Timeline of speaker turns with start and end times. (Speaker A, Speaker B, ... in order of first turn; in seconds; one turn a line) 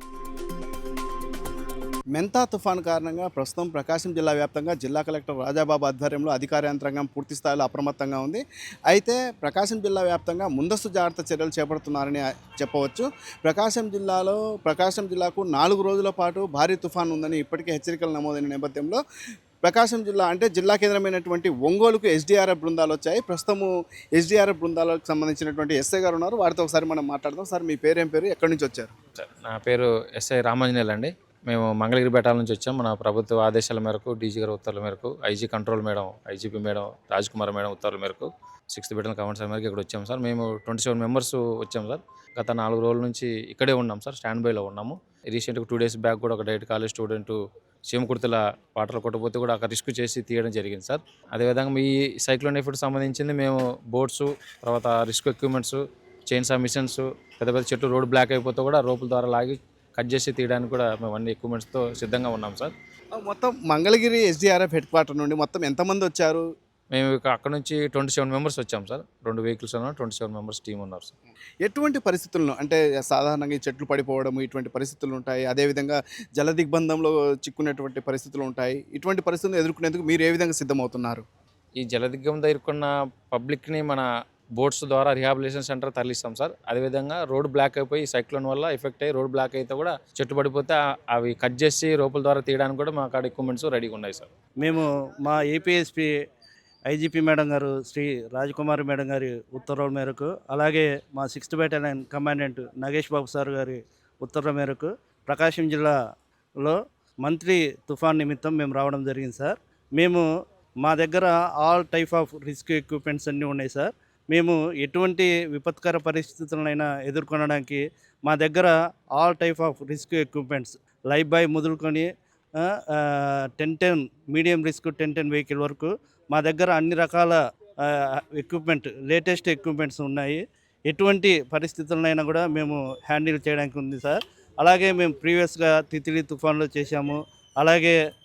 Speaker A: 2.1-19.0
Speaker A: 19.6-28.9
Speaker B: 29.2-62.7
Speaker A: 63.1-66.5
Speaker B: 66.9-71.1
Speaker A: 71.6-81.2
Speaker B: 81.8-84.1
Speaker B: 84.6-94.3
Speaker C: 94.6-96.1
Speaker C: 96.9-105.9
Speaker C: 106.6-110.2
Speaker C: 110.8-138.0